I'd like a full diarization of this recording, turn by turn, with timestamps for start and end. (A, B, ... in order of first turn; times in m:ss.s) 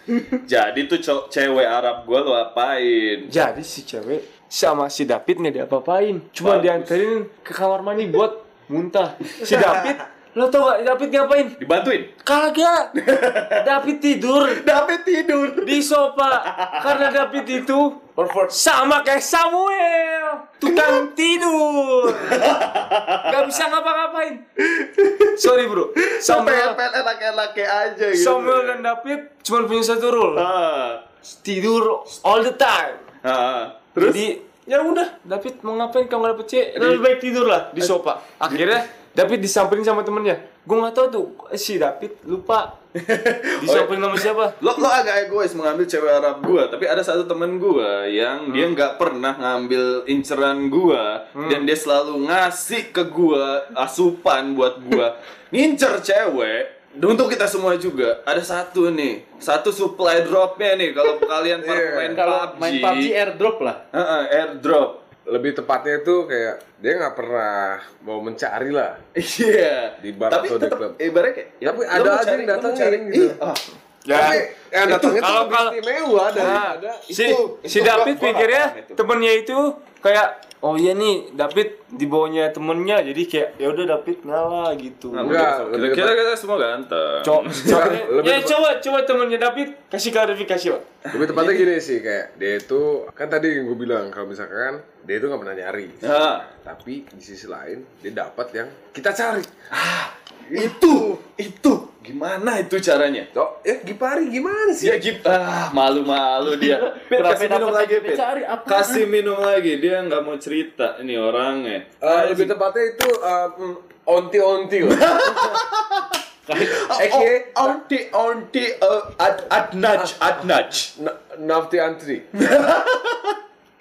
0:00.4-0:03.3 A
0:03.3-0:11.5 B
0:06.4-0:07.0 A
0:09.4-0:09.9 A
0:11.6-0:12.1 A
0:12.2-0:12.9 B
0:13.0-0:13.6 A
0:13.5-0:14.6 B
0:14.4-0:15.8 A
0:15.6-0:22.4 B
0:16.3-0:17.2 A
0:20.6-0:21.0 A
0:22.1-0:23.5 A
0:23.2-0:24.4 B
0:24.7-0:25.4 A
0:25.4-0:26.8 B
0:26.0-0:28.8 A
0:28.1-0:30.4 B
0:30.3-0:31.0 A
0:31.2-0:33.0 B
0:33.2-0:34.2 A
0:34.0-0:42.7 B
0:36.8-0:37.0 A
0:38.5-0:38.8 A
0:43.0-1:03.1 A
0:43.6-0:44.6 B
0:48.5-0:48.8 B
0:51.3-0:51.7 B
1:01.6-1:02.2 C
1:02.1-1:03.8 D
1:03.9-1:05.0 A
1:05.3-1:09.0 C
1:09.2-1:13.6 A
1:10.0-1:11.0 C
1:11.6-1:13.4 C
1:14.0-1:15.8 B
1:14.1-1:17.0 C
1:16.3-1:25.4 B
1:17.1-1:19.0 A
1:25.1-1:27.8 A
1:25.2-1:26.2 C
1:27.2-1:30.8 B
1:27.6-1:28.6 C
1:31.1-1:31.6 A
1:31.1-1:39.5 C
1:36.0-1:36.4 A
1:39.7-1:43.3 A
1:40.5-1:41.2 C
1:43.3-1:45.0 C
1:44.8-1:52.5 A
1:46.4-1:49.1 D
1:52.0-1:55.1 C
1:54.8-2:00.9 A
1:56.5-1:57.3 D
1:57.0-1:57.8 C
1:59.9-2:00.4 C
2:01.0-2:02.3 C
2:02.4-2:03.4 A